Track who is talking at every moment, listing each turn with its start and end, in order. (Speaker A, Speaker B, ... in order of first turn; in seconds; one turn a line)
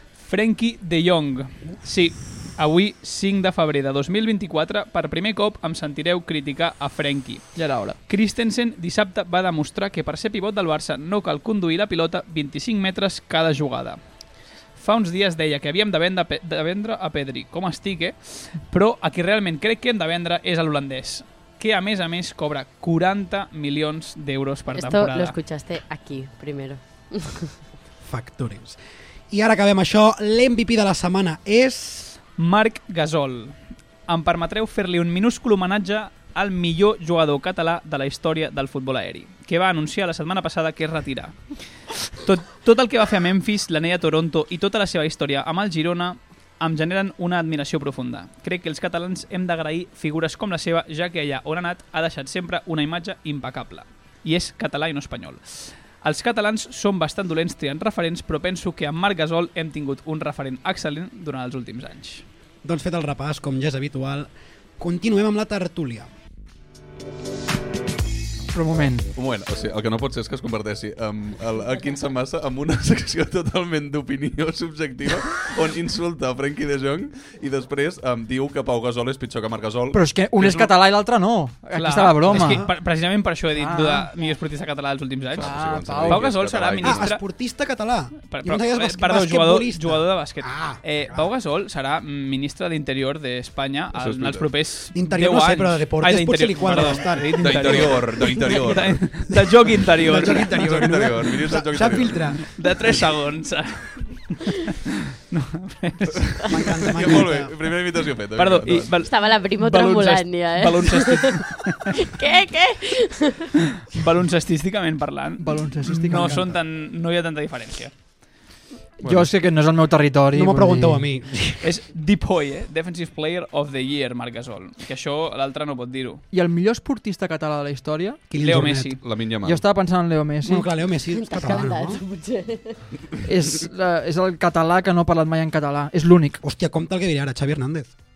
Speaker A: 0.2-7.5
Speaker B: 7.5-8.0
Speaker A: 8.1-14.0
Speaker A: 14.8-25.3
Speaker C: 24.7-27.5
Speaker D: 28.0-28.8
Speaker D: 29.3-32.2
Speaker A: 32.4-33.5
Speaker A: 34.1-41.5
Speaker A: 42.1-62.2
Speaker D: 62.6-66.1
Speaker B: 68.5-69.1
Speaker E: 69.2-80.7
Speaker B: 79.9-82.6
Speaker A: 81.7-85.5
Speaker D: 82.3-82.7
Speaker B: 83.5-84.1
Speaker E: 85.3-87.1
Speaker B: 85.4-86.3
Speaker A: 86.0-87.2
Speaker D: 86.8-90.8
Speaker A: 88.3-100.8
Speaker E: 93.9-94.5
Speaker D: 94.9-98.2
Speaker E: 97.4-99.1
Speaker D: 100.0-102.4
Speaker E: 100.6-102.4
Speaker A: 102.4-107.0
Speaker D: 106.5-107.5
Speaker E: 106.8-109.0
Speaker A: 108.4-112.0
Speaker C: 109.0-113.5
Speaker A: 113.8-117.9
Speaker B: 115.4-116.4
Speaker D: 115.9-116.6
Speaker B: 119.0-121.1
Speaker E: 119.0-119.3
Speaker D: 120.3-121.7
Speaker A: 121.6-126.2
Speaker B: 126.3-128.2
Speaker D: 128.3-128.9
Speaker A: 128.4-129.0
Speaker E: 129.0-129.6
Speaker B: 129.4-130.7
Speaker D: 130.4-132.0
Speaker C: 131.1-132.8
Speaker B: 133.2-136.4
Speaker D: 136.4-137.9